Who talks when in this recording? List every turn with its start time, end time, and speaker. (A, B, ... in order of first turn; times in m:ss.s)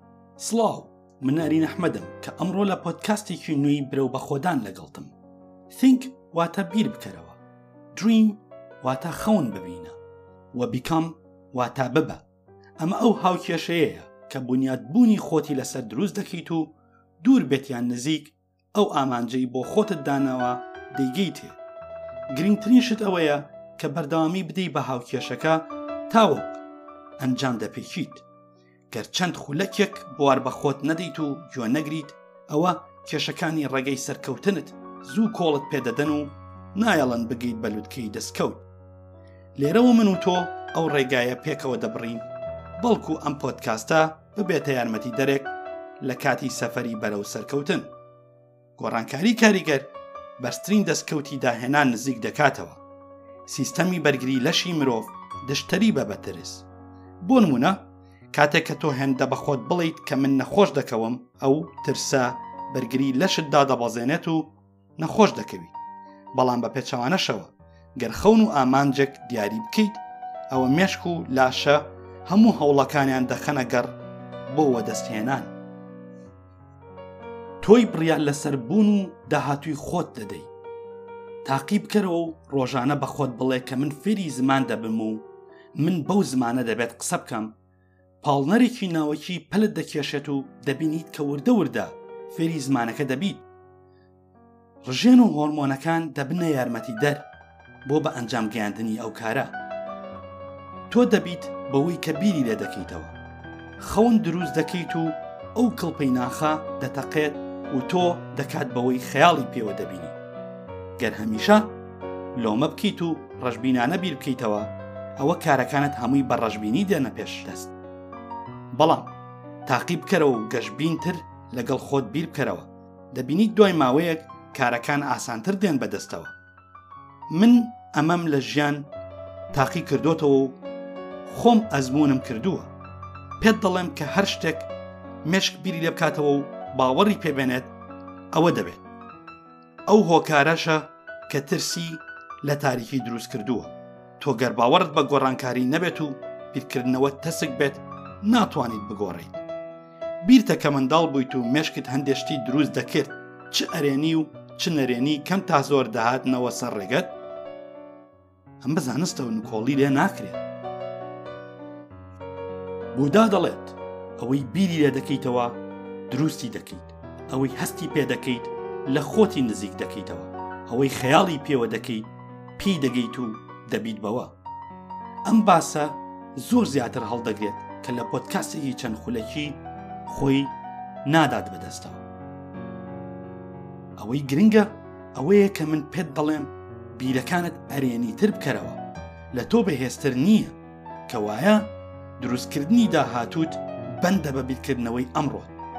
0:00.4-0:05.1 A
0:05.7-0:07.4 A
0:07.9-0:10.0 A
0:10.5-0:12.3 A
0:12.8-0:21.6 A
0:22.3-0:26.6 A
0:27.2-0:28.2 A
0:28.9-0:38.7 A
0:39.6-0:42.3 A
0:42.8-0:47.9 A
0:48.8-0:52.8 A
0:53.5-0:56.7 A
0:57.2-1:05.8 A
1:06.3-1:14.0 A
1:14.5-1:15.5 A
1:17.6-1:20.5 A
1:21.4-1:27.6 A
1:28.2-1:33.4 A
1:34.8-1:37.3 A
1:37.8-1:39.6 A
1:40.9-1:43.2 A
1:43.8-1:50.2 A
1:51.0-1:51.8 A
1:52.4-1:57.7 A
1:58.7-2:06.4 A
2:07.3-2:08.9 A
2:09.5-2:10.6 A
2:11.3-2:12.7 A
2:13.4-2:14.7 A
2:15.2-2:17.8 A
2:18.3-2:18.8 A
2:19.9-2:29.4 A
2:30.2-2:37.2 A
2:38.6-2:40.4 A
2:42.9-2:54.4 A
2:55.2-3:02.0 A
3:04.0-3:15.5 A